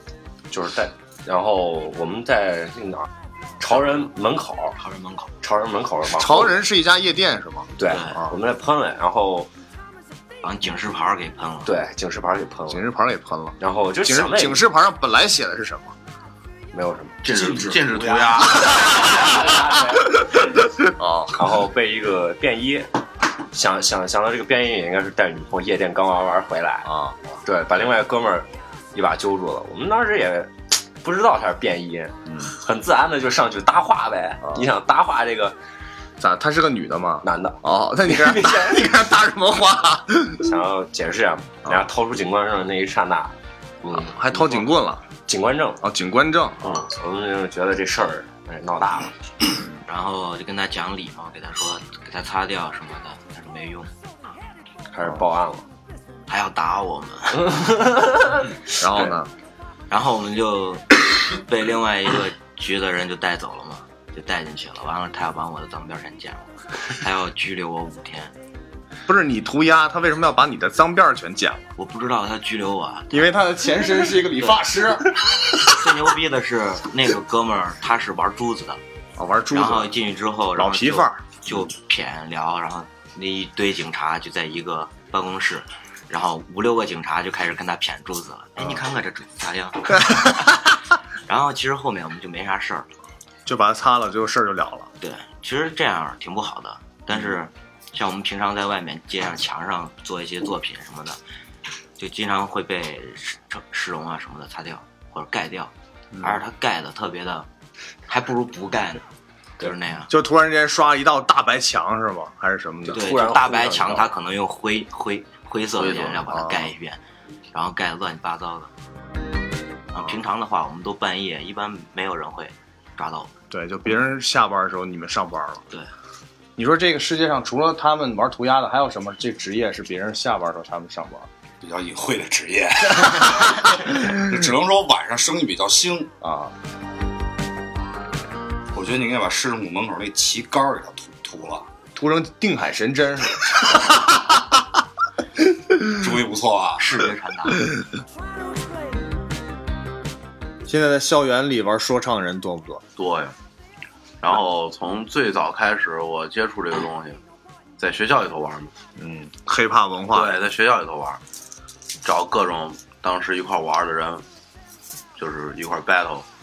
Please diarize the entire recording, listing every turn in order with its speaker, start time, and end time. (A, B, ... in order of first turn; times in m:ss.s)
0:00.5-0:03.1 A
0:03.6-0:04.8 A
0:04.8-0:05.3 B
0:05.4-0:06.6 A
0:06.1-0:08.3 C
0:07.8-0:09.5 A
0:07.9-0:08.2 B
0:10.4-0:11.8 B
0:11.6-0:12.9 A
0:12.7-0:15.9 C
0:13.6-0:14.7 A
0:16.7-0:17.2 A
0:17.2-0:19.0 D
0:17.3-0:18.6 E
0:18.8-0:20.1 A
0:20.8-0:21.5 C
0:21.4-0:22.9 A
0:23.5-0:26.9 A
0:26.8-0:27.2 C
0:27.4-0:35.6 A
0:36.2-0:40.5 C
0:37.2-0:38.8 A
0:40.4-0:44.7 A
0:43.9-0:45.0 C
0:45.3-0:45.8 A
0:45.8-0:46.8 C
0:46.6-0:49.1 A
0:49.9-0:53.9 B
0:54.9-0:55.7 A
0:56.3-0:57.7 B
0:57.4-0:59.1 A
0:58.7-0:59.3 C
0:59.9-1:08.3 B
1:09.1-1:11.6 C
1:11.8-1:13.4 B
1:13.1-1:15.6 C
1:14.4-1:14.7 B
1:15.6-1:18.8 B
1:19.2-1:19.9 C
1:19.5-1:30.6 B
1:20.6-1:21.4 C
1:30.0-1:30.5 C
1:31.3-1:32.9 B
1:33.5-1:34.9 C
1:35.0-1:41.2 B
1:42.0-1:47.5 B
1:46.1-1:46.4 C
1:48.1-1:49.0 B
1:49.6-1:50.1 B
1:50.1-1:53.1 C
1:52.8-1:54.1 A
1:52.9-1:57.0 B
1:55.8-1:56.2 D
1:56.3-1:56.7 C
1:57.5-1:58.7 B
1:59.9-2:03.3 B
2:03.5-2:05.6 C
2:06.6-2:11.3 C
2:11.6-2:16.1 E
2:16.2-2:16.5 C
2:18.7-2:21.7 E
2:22.0-2:24.4 C
2:25.9-2:26.9 E
2:26.8-2:27.7 B
2:30.7-2:32.8 C
2:33.0-2:33.3 D
2:34.2-2:37.2 D
2:37.8-2:38.7 D
2:39.0-2:40.4 C
2:40.1-2:41.2 D
2:42.0-2:44.2 D
2:45.2-2:46.2 D